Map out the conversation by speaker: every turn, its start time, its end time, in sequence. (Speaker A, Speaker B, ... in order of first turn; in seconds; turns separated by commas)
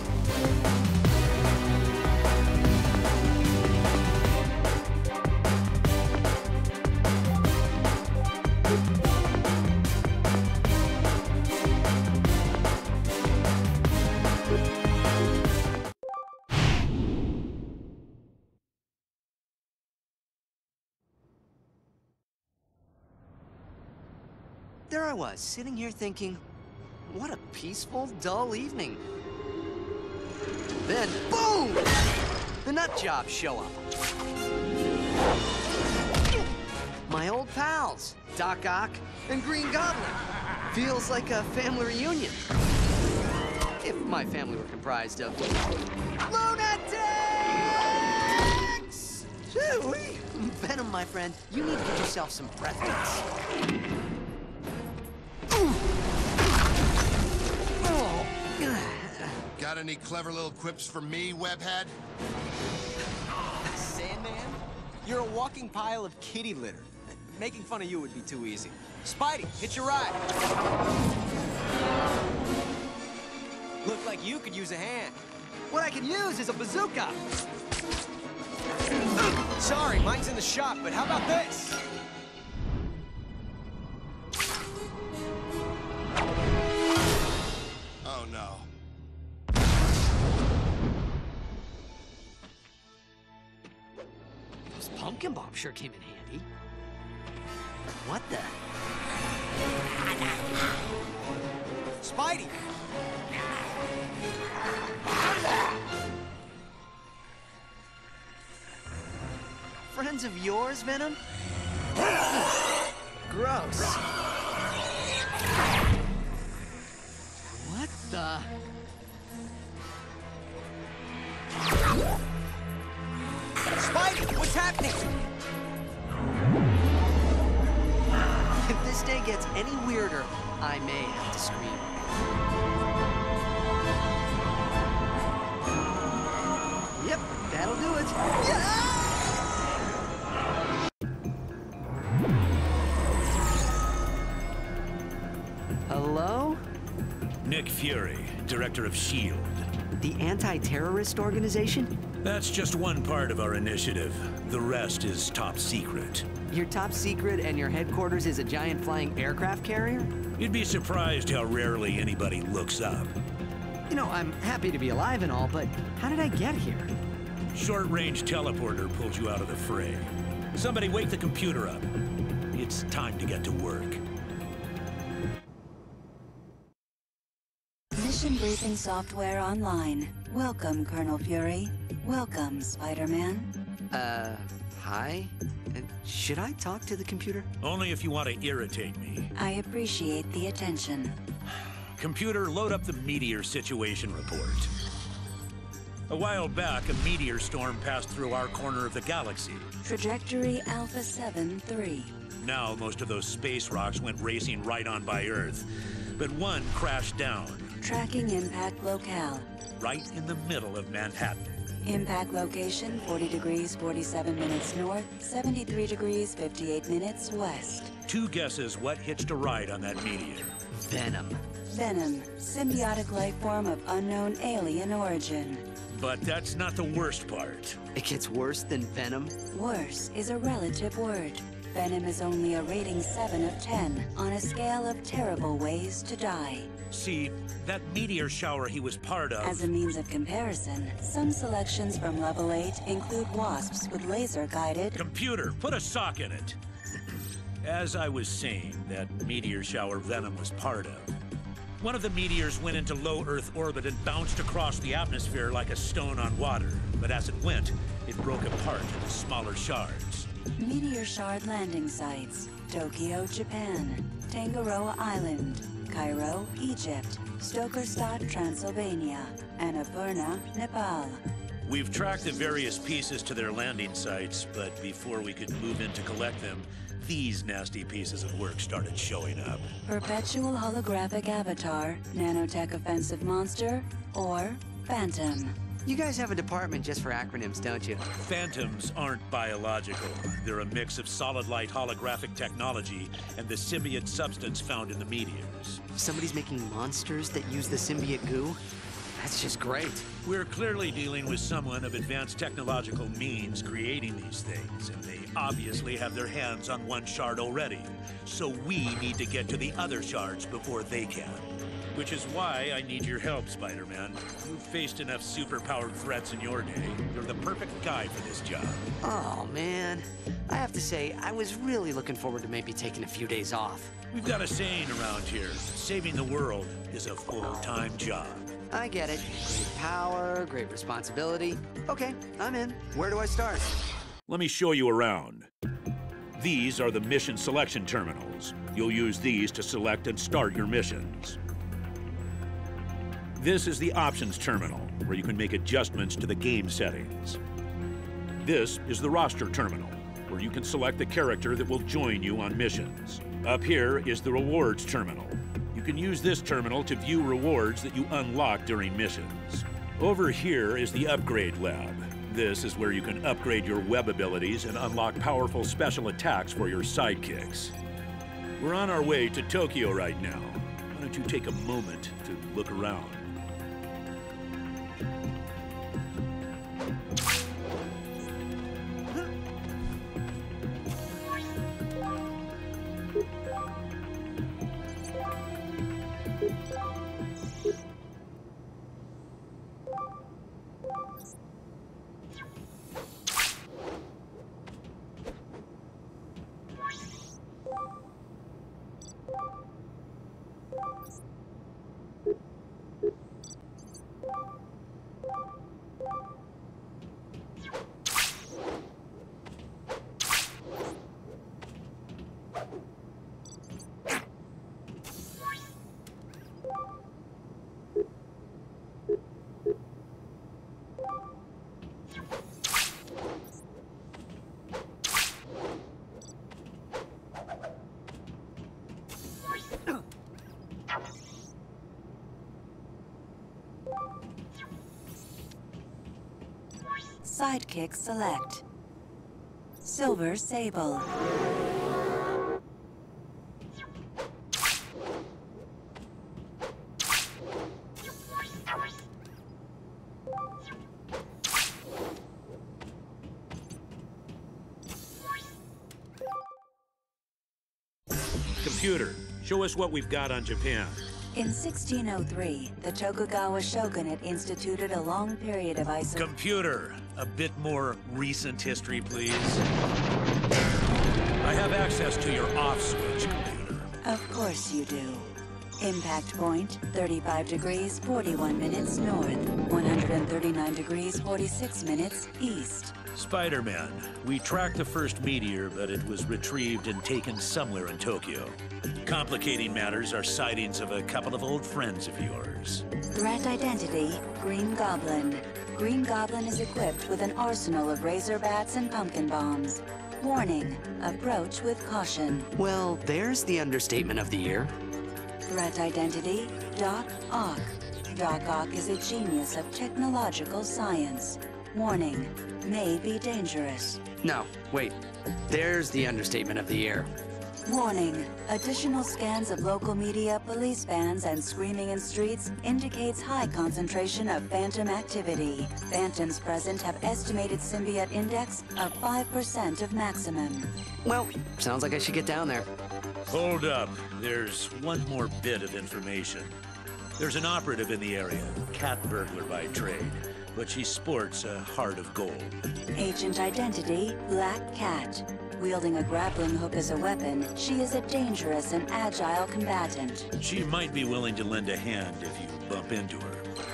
Speaker A: 24.9-26.4, Speaker A: 27.1-29.0, Speaker A: 30.8-31.9, Speaker A: 32.6-33.8, Speaker A: 37.0-42.5, Speaker A: 43.8-45.5, Speaker A: 46.2-53.2, Speaker A: 57.8-59.4, Speaker B: 59.5-61.9, Speaker C: 63.7-70.2, Speaker C: 73.8-75.2, Speaker A: 75.7-77.2, Speaker C: 79.5-81.8, Speaker B: 88.0-88.7, Speaker A: 94.7-96.5, Speaker A: 98.0-98.6, Speaker C: 102.0-102.5, Speaker A: 109.9-111.2, Speaker A: 113.3-114.0, Speaker A: 117.4-118.5, Speaker C: 123.8-125.1, Speaker A: 128.6-132.1, Speaker A: 136.9-139.1, Speaker A: 145.9-146.6, Speaker D: 147.4-149.7, Speaker A: 150.0-151.9, Speaker D: 152.2-156.3, Speaker A: 156.5-160.1, Speaker D: 160.4-163.1, Speaker A: 163.9-166.9, Speaker D: 167.5-171.9, Speaker D: 172.5-174.0, Speaker E: 177.9-183.5, Speaker A: 183.9-187.5, Speaker D: 187.6-189.3, Speaker E: 189.3-191.2, Speaker D: 191.9-194.7, Speaker D: 196.1-199.7, Speaker E: 199.8-202.2, Speaker D: 202.4-207.8, Speaker E: 207.8-209.5, Speaker D: 209.8-211.6, Speaker E: 211.8-217.9, Speaker D: 218.0-220.6, Speaker A: 220.7-221.4, Speaker E: 221.7-225.7, Speaker D: 225.9-227.8, Speaker A: 227.9-229.3, Speaker E: 229.5-236.7, Speaker D: 236.9-239.7, Speaker E: 239.4-245.0, Speaker D: 244.9-246.6, Speaker D: 247.6-251.1, Speaker D: 251.8-260.3, Speaker E: 260.6-271.2, Speaker D: 271.6-279.7, Speaker E: 279.9-285.5, Speaker A: 285.8-288.0, Speaker D: 288.2-295.8, Speaker A: 295.9-298.6, Speaker A: 299.1-300.1, Speaker D: 300.2-318.9, Speaker A: 319.0-323.9, Speaker D: 324.1-328.5, Speaker A: 328.7-333.7, Speaker D: 334.3-335.5, Speaker D: 336.4-341.4, Speaker D: 343.4-347.4, Speaker D: 348.4-367.7, Speaker D: 368.6-373.3, Speaker E: 437.2-438.6, Speaker E: 439.8-441.1, Speaker D: 458.6-461.0, Speaker E: 461.3-466.3, Speaker D: 466.1-469.6, Speaker D: 471.4-473.9, Speaker E: 474.0-482.9, Speaker D: 483.1-492.8, Speaker E: 493.1-502.5, Speaker A: 502.6-504.7, Speaker E: 505.4-514.0, Speaker A: 514.2-517.1, Speaker E: 517.6-530.7, Speaker A: 531.0-532.7, Speaker D: 533.3-536.6, Speaker D: 537.2-542.7, Speaker E: 542.9-550.3, Speaker D: 550.4-553.5